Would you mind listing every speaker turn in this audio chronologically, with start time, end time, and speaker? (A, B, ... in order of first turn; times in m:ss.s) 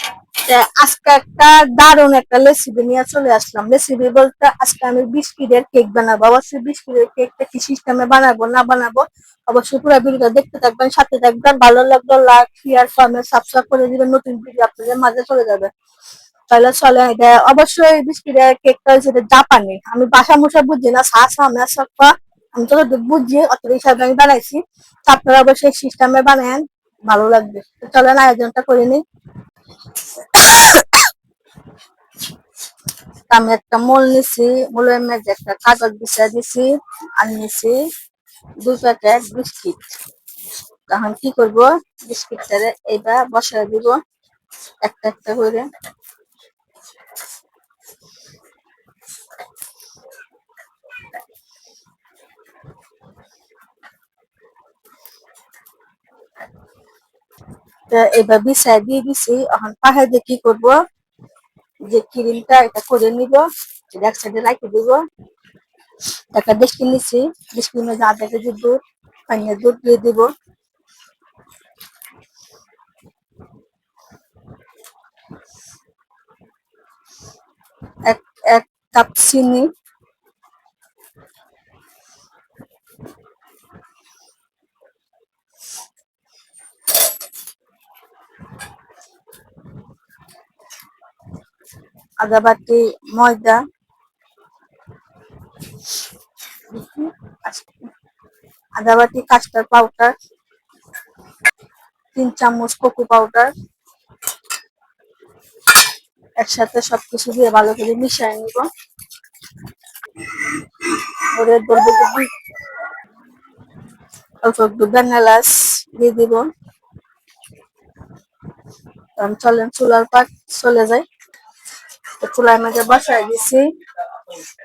0:00.5-0:15.7 A
0:16.5-0:29.0 A
0:30.2-0:31.0 A
0:33.3-0:36.7 A
0:37.2-0:37.7 A
0:38.6-0:39.8 A
0:40.9-0:44.0 A
0:44.8-0:45.6 A
0:57.9-1:00.8 A
1:01.9-1:05.0 A
1:06.3-1:10.3 A
1:18.1-1:19.7 A
1:32.2-1:33.6 A
1:36.7-1:37.7 A
1:38.8-1:40.1 A
1:42.1-1:43.5 A
1:46.4-1:48.7 A
1:50.4-1:52.3 A
1:54.4-1:56.4 A
1:59.2-2:01.0 A
2:02.2-2:03.6 A